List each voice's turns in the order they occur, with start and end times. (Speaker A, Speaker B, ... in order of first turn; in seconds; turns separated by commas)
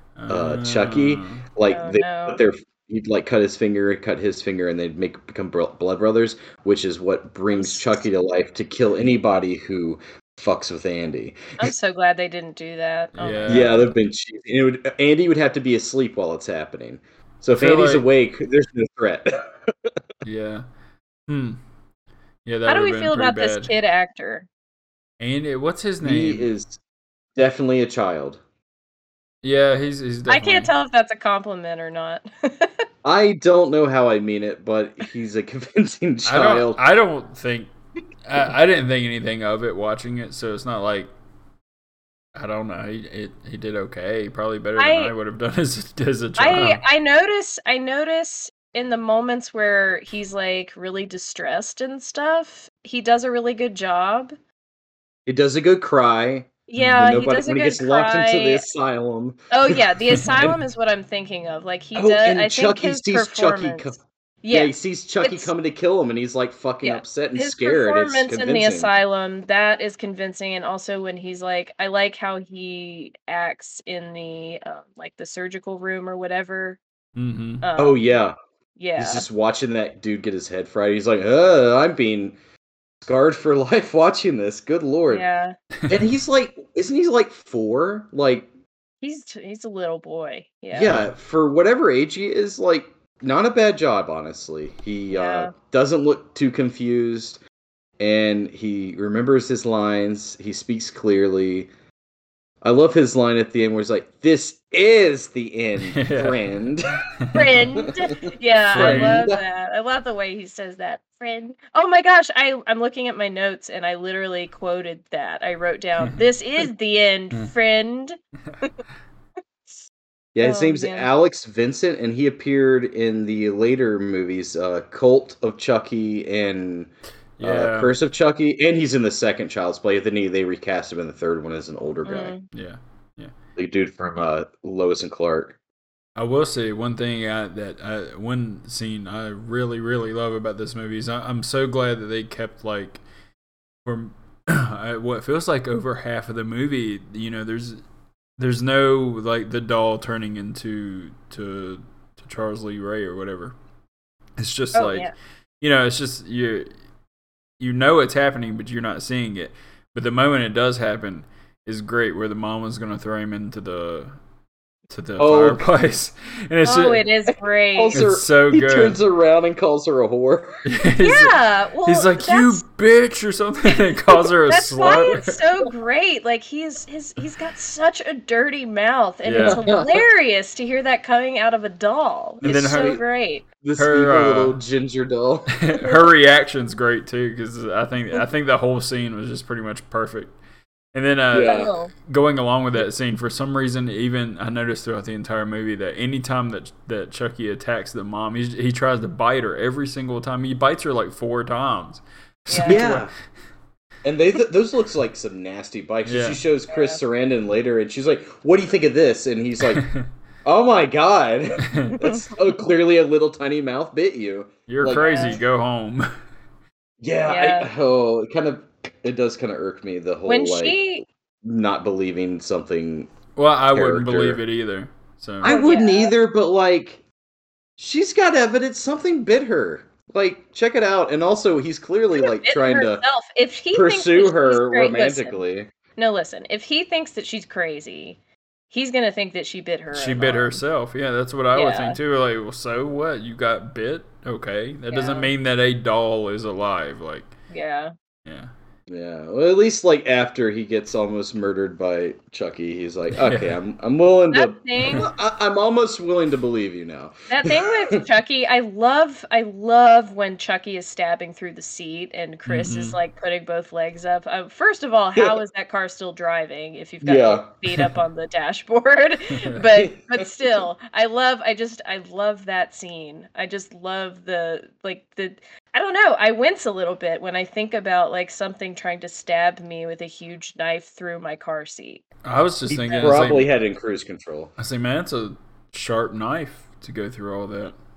Speaker A: 0.2-1.5, Speaker B: 0.3-11.7, Speaker C: 1.7-2.4, Speaker C: 7.5-8.0, Speaker C: 11.6-13.9, Speaker A: 13.2-13.9, Speaker B: 13.5-20.0, Speaker A: 17.6-18.1, Speaker A: 20.2-20.6, Speaker A: 21.3-21.6, Speaker A: 22.4-23.7, Speaker C: 22.7-24.5, Speaker A: 25.2-26.5, Speaker B: 26.0-26.8, Speaker B: 27.4-28.4, Speaker A: 29.4-30.7, Speaker C: 30.3-32.8, Speaker B: 33.0-36.8, Speaker A: 36.3-37.7, Speaker A: 38.2-41.1, Speaker A: 42.4-46.8, Speaker C: 44.8-45.1, Speaker C: 46.4-54.4, Speaker B: 55.3-60.6, Speaker C: 56.7-58.6, Speaker A: 56.8-57.0, Speaker C: 59.5-65.5, Speaker A: 60.2-60.5, Speaker B: 62.0-68.9, Speaker C: 66.8-76.8, Speaker A: 77.2-77.7, Speaker C: 77.6-78.1, Speaker B: 77.8-78.4, Speaker C: 78.8-79.3, Speaker B: 79.0-82.4, Speaker B: 83.0-85.2, Speaker C: 85.1-85.5, Speaker B: 85.9-88.5, Speaker C: 89.0-91.0, Speaker B: 90.7-97.4, Speaker A: 90.8-91.1, Speaker C: 95.1-95.5, Speaker B: 98.0-101.7, Speaker B: 102.6-108.1, Speaker A: 105.8-106.5, Speaker A: 107.2-107.5, Speaker C: 107.3-118.8, Speaker A: 108.7-109.2, Speaker B: 108.7-109.4, Speaker B: 120.3-126.9, Speaker C: 120.4-121.1, Speaker A: 127.4-127.9, Speaker B: 127.4-132.3, Speaker C: 132.1-132.4, Speaker A: 132.5-133.3, Speaker B: 133.6-135.6, Speaker A: 136.2-143.0, Speaker A: 143.8-147.8, Speaker A: 148.4-153.6, Speaker A: 154.4-155.1, Speaker C: 154.7-155.1, Speaker A: 155.6-156.7, Speaker A: 157.6-164.2, Speaker A: 164.9-167.1, Speaker B: 165.2-165.9, Speaker C: 166.6-168.0, Speaker B: 167.8-170.6, Speaker A: 167.9-169.0, Speaker A: 170.7-175.4, Speaker C: 171.0-172.6, Speaker C: 173.7-173.9, Speaker C: 174.5-183.4, Speaker B: 174.9-175.1, Speaker A: 179.2-179.7, Speaker B: 179.4-180.0, Speaker A: 182.4-183.0, Speaker B: 182.4-183.0, Speaker B: 183.6-185.9, Speaker A: 183.8-184.6, Speaker A: 185.5-190.3, Speaker A: 190.9-203.1, Speaker B: 191.3-191.7, Speaker C: 191.4-191.9, Speaker C: 202.5-202.9, Speaker B: 202.6-203.1, Speaker B: 204.0-209.8, Speaker A: 206.1-206.4, Speaker C: 206.7-207.0, Speaker A: 209.7-210.1, Speaker B: 210.4-215.4, Speaker A: 211.6-212.0, Speaker C: 212.0-212.3, Speaker A: 214.7-216.1, Speaker C: 214.9-215.4, Speaker B: 217.0-223.2, Speaker C: 217.2-217.7, Speaker C: 220.3-221.1, Speaker A: 223.4-225.5, Speaker B: 223.7-224.4, Speaker B: 225.4-227.0, Speaker C: 225.4-226.1, Speaker B: 227.8-233.1, Speaker C: 232.2-235.4, Speaker B: 233.7-235.7, Speaker C: 236.0-238.2, Speaker C: 238.7-240.6, Speaker A: 239.9-247.3, Speaker C: 241.5-242.0, Speaker C: 244.9-245.3, Speaker C: 247.5-247.9, Speaker A: 248.2-248.5, Speaker B: 248.9-258.0, Speaker A: 253.1-253.6, Speaker C: 254.3-255.1, Speaker C: 257.3-282.0, Speaker A: 262.5-263.0, Speaker B: 267.0-267.5, Speaker A: 269.4-269.7, Speaker B: 269.8-270.6, Speaker A: 282.2-283.5, Speaker B: 282.7-284.5, Speaker C: 282.9-283.2, Speaker A: 284.6-287.8